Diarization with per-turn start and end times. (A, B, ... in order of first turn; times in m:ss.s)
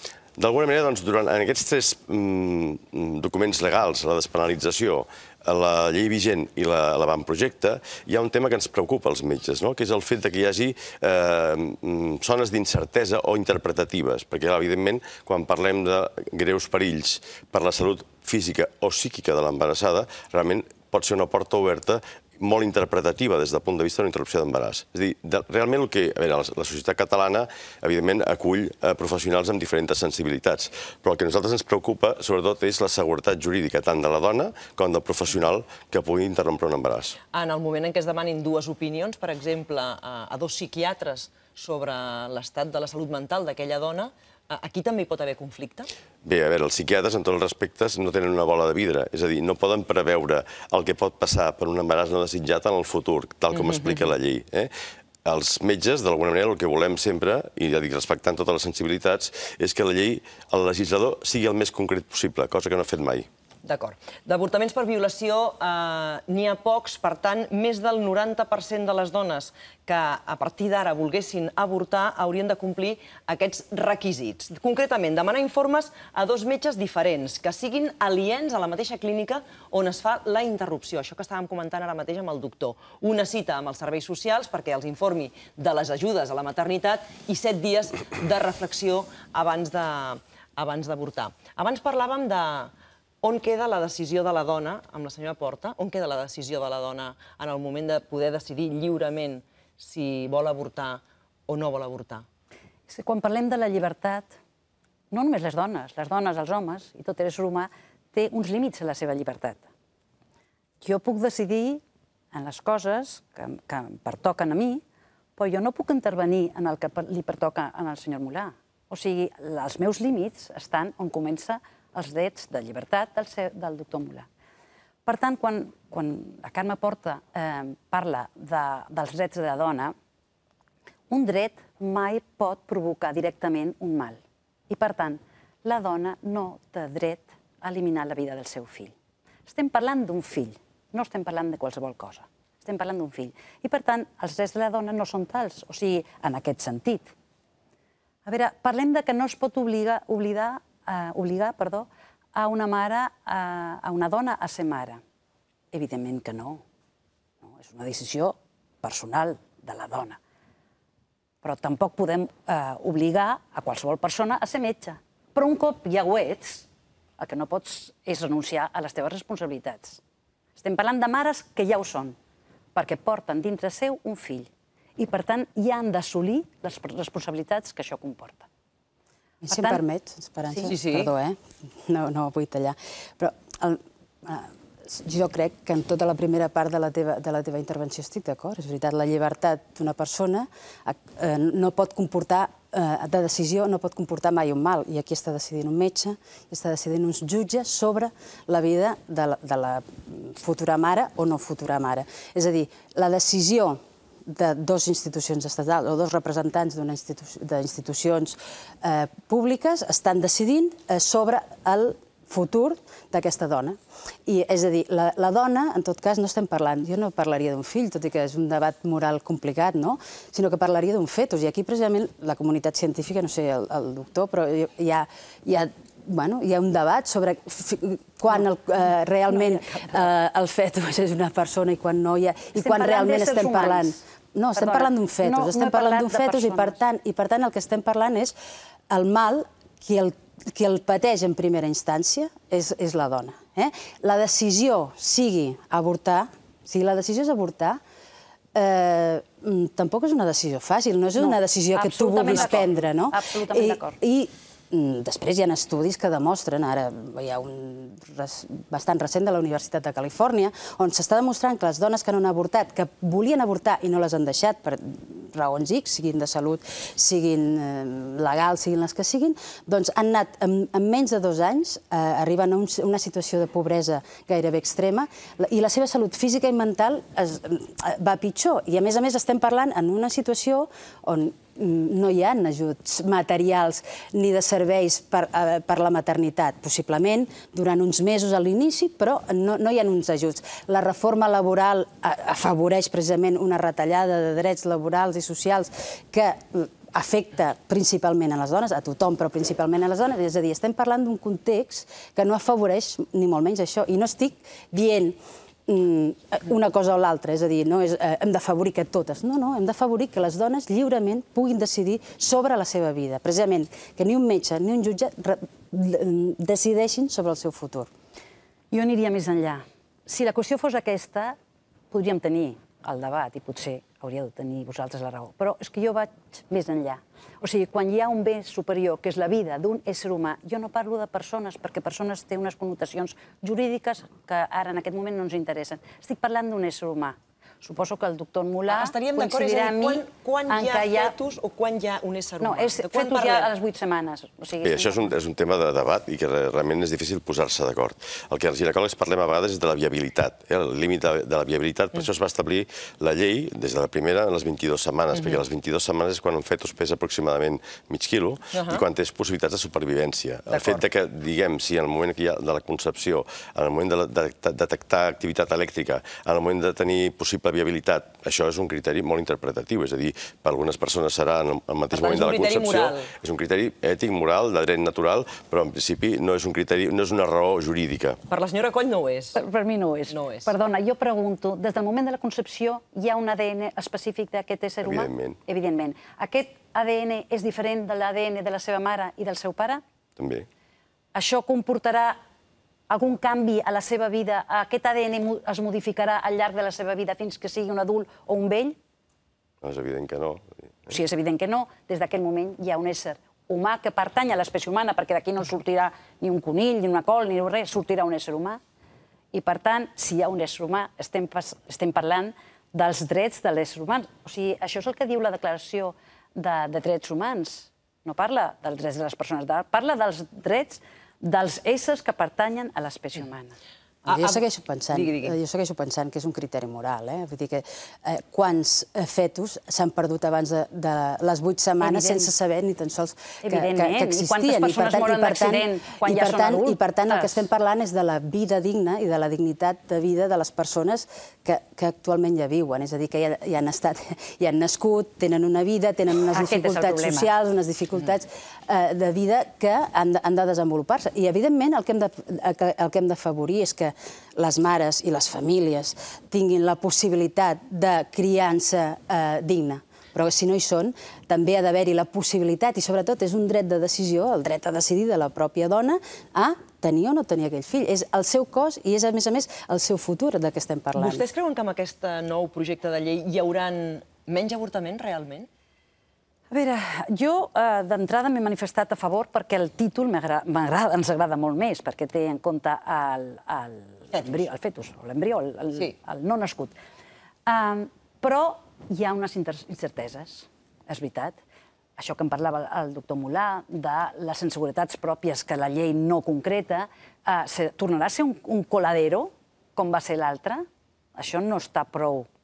0:00.4-0:37.2 A
0:37.3-0:45.9 B
0:46.2-0:54.7 A
0:53.5-0:54.1 B
0:55.2-1:03.3 A
1:03.6-1:42.3 B
1:42.9-1:44.4 C
1:45.1-1:49.7 C
1:50.8-1:51.8 C
1:52.3-1:54.8 C
1:55.4-2:04.3 C
2:05.0-2:10.0 C
2:11.1-2:18.9 C
2:19.5-2:27.1 C
2:28.2-2:35.0 C
2:35.7-2:36.6 C
2:37.4-2:40.2 C
2:41.4-2:46.7 C
2:47.2-2:50.0 C
2:50.6-2:52.2 C
2:52.8-2:58.5 C
2:59.4-3:58.4 D
2:59.5-2:59.8 C
3:00.7-3:01.1 B
3:49.4-3:49.9 C
3:52.6-3:54.0 C
3:54.6-3:56.8 C
3:58.9-4:07.8 D
4:08.5-5:17.9 D
4:11.2-4:14.0 C
5:18.7-5:21.4 C
5:21.9-5:41.2 C
5:38.7-5:43.5 B
5:42.4-5:45.1 C
5:44.6-6:18.2 A
5:55.1-5:55.4 B
5:58.5-5:58.8 B
6:00.5-6:00.8 B
6:11.9-6:13.1 B
6:18.3-6:19.4 B
6:19.4-6:29.8 C
6:20.1-6:20.5 B
6:24.8-6:25.4 A
6:30.2-6:30.5 A
6:31.1-6:32.2 C
6:32.9-6:38.8 C
6:39.6-6:40.9 A
6:40.9-6:48.6 C
6:49.3-7:03.6 C
7:04.1-7:05.4 B
7:04.1-7:51.2 D
7:11.8-7:12.3 C
7:13.4-7:17.4 C
7:26.3-7:27.3 C
7:51.0-7:55.5 B
7:56.5-8:06.8 C
8:07.5-8:11.4 C
8:12.0-8:22.3 C